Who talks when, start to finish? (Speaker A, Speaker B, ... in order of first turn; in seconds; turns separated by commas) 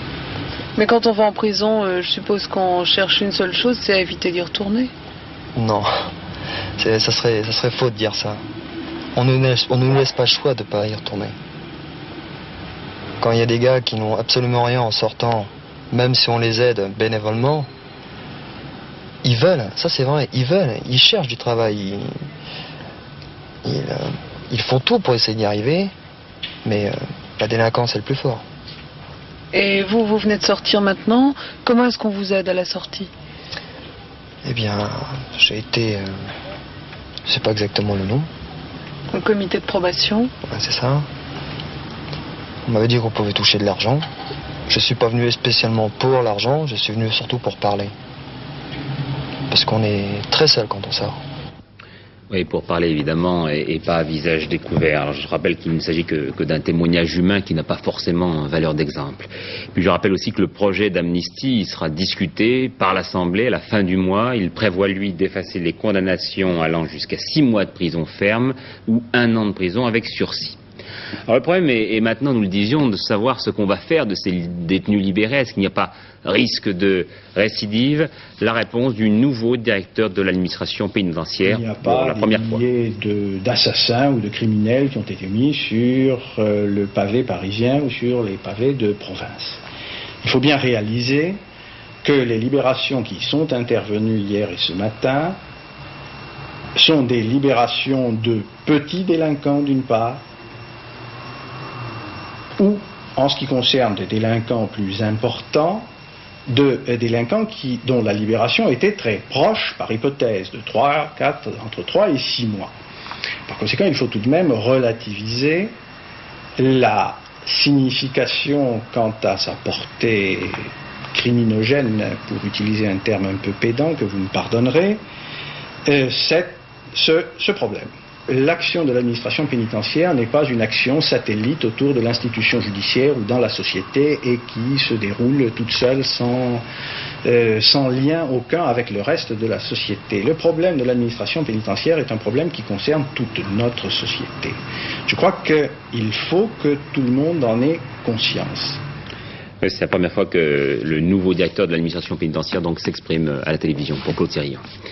Speaker A: 0.8-4.9, Speaker B: 5.6-6.1, Speaker B: 6.8-8.4, Speaker B: 9.2-11.3, Speaker B: 13.2-17.7, Speaker B: 19.2-22.2, Speaker B: 23.6-25.9, Speaker B: 26.6-28.4, Speaker A: 29.5-33.1, Speaker B: 34.4-36.3, Speaker B: 37.3-38.3, Speaker A: 39.1-40.3, Speaker B: 40.5-41.1, Speaker B: 42.7-44.1, Speaker B: 44.7-47.9, Speaker B: 49.5-51.2, Speaker C: 52.3-70.6, Speaker C: 71.3-82.6, Speaker D: 81.5-89.6, Speaker D: 90.2-91.4, Speaker D: 92.0-95.4, Speaker D: 96.8-100.2, Speaker D: 102.6-105.9, Speaker D: 106.5-112.7, Speaker D: 113.5-115.8, Speaker D: 116.6-125.0, Speaker D: 125.9-136.7, Speaker D: 137.2-148.8, Speaker C: 149.6-154.6